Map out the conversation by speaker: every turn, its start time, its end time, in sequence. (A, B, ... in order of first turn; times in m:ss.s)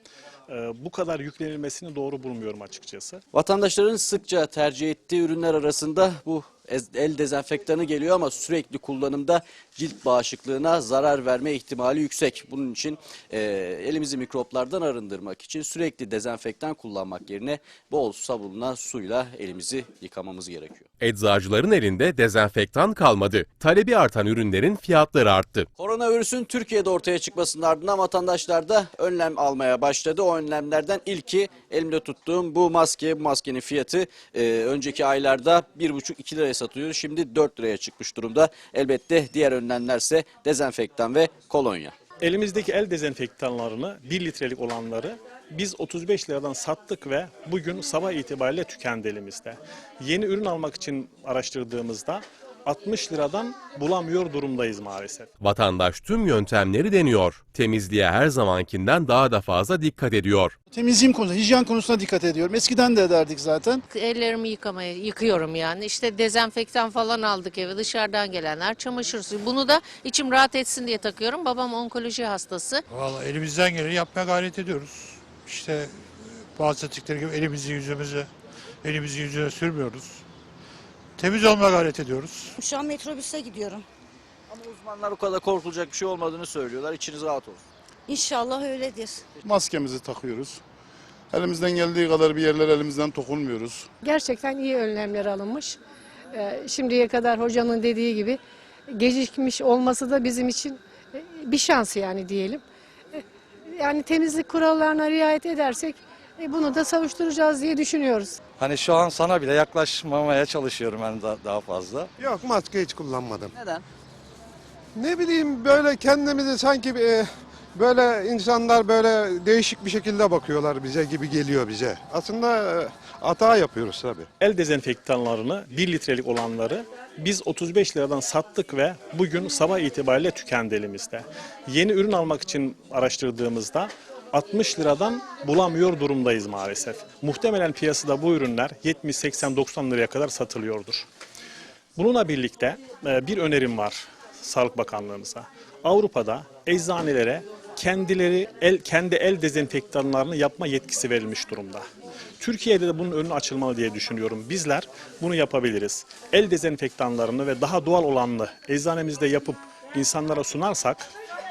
0:00.5-0:03.2 A
0:03.3-0:20.9 B
0:21.0-0:25.7 C
0:25.8-0:41.9 B
0:42.2-0:55.3 A
0:55.4-1:00.5 C
1:00.7-1:03.8 D
1:03.9-1:12.8 E
1:12.9-1:18.3 F
1:18.8-1:20.2 F
1:21.2-1:22.6 F
1:22.6-1:23.8 G
1:24.5-1:27.6 B
1:28.1-1:29.2 G
1:29.4-1:30.6 D
1:31.3-1:33.9 D
1:34.0-1:35.8 H
1:36.3-1:42.6 H
1:43.8-1:48.4 H
1:48.6-1:52.1 I
1:52.2-1:53.5 J
1:53.5-1:53.8 B
1:55.0-2:04.3 J
2:04.4-2:21.1 A
2:22.0-2:31.8 A
2:32.4-2:41.1 A